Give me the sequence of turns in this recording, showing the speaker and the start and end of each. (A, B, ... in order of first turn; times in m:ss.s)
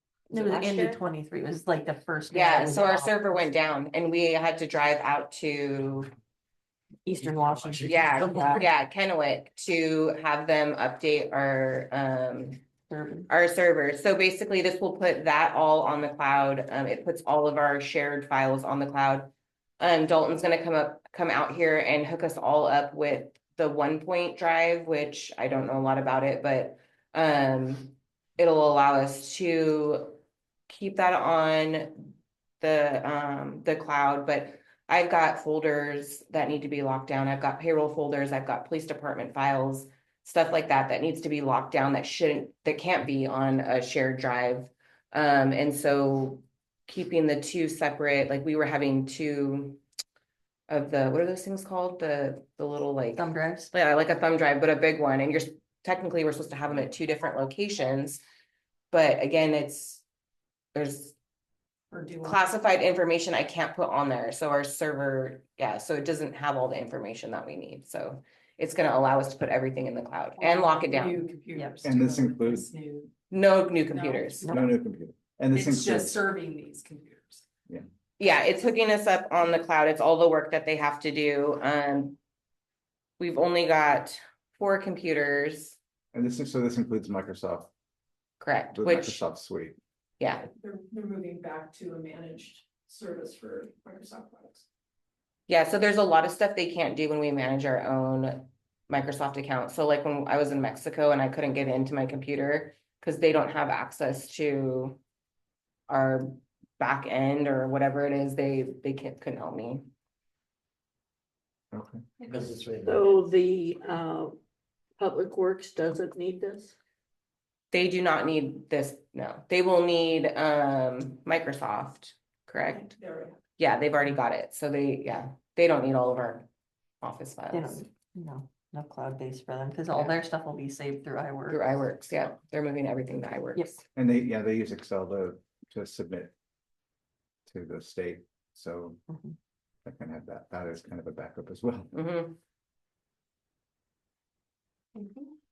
0:00.3-0:03.3 A
0:00.3-0:01.0 B
0:02.3-0:06.1 C
0:07.0-0:08.6 B
0:07.4-0:08.6 D
0:07.9-0:12.6 C
0:12.9-0:13.3 A
0:13.3-0:30.2 C
0:30.7-0:49.8 C
0:50.7-0:58.2 C
0:53.2-0:53.7 A
0:58.9-1:00.0 C
1:00.7-1:01.1 C
1:01.9-1:02.4 E
1:02.2-1:11.2 C
1:10.4-1:13.1 E
1:11.8-1:12.7 F
1:13.3-1:14.6 C
1:13.9-1:14.3 E
1:14.5-1:16.1 F
1:15.5-1:17.4 E
1:18.2-1:22.2 C
1:23.2-1:25.8 C
1:26.1-1:27.7 F
1:28.4-1:29.2 C
1:28.7-1:29.8 F
1:30.2-1:30.5 C
1:30.6-1:34.6 E
1:35.5-1:45.0 C
1:45.9-1:49.8 C
1:51.7-1:52.0 F
1:52.3-1:53.2 D
1:52.8-1:54.4 B
1:55.0-1:56.7 B
1:57.7-2:02.9 C
2:02.7-2:03.4 E
2:03.6-2:06.4 C
2:07.0-2:07.8 C
2:07.5-2:11.6 A
2:11.5-2:13.7 C
2:13.9-2:16.3 F
2:17.5-2:19.0 F
2:19.1-2:19.3 A
2:19.8-2:21.9 F
2:21.9-2:22.4 C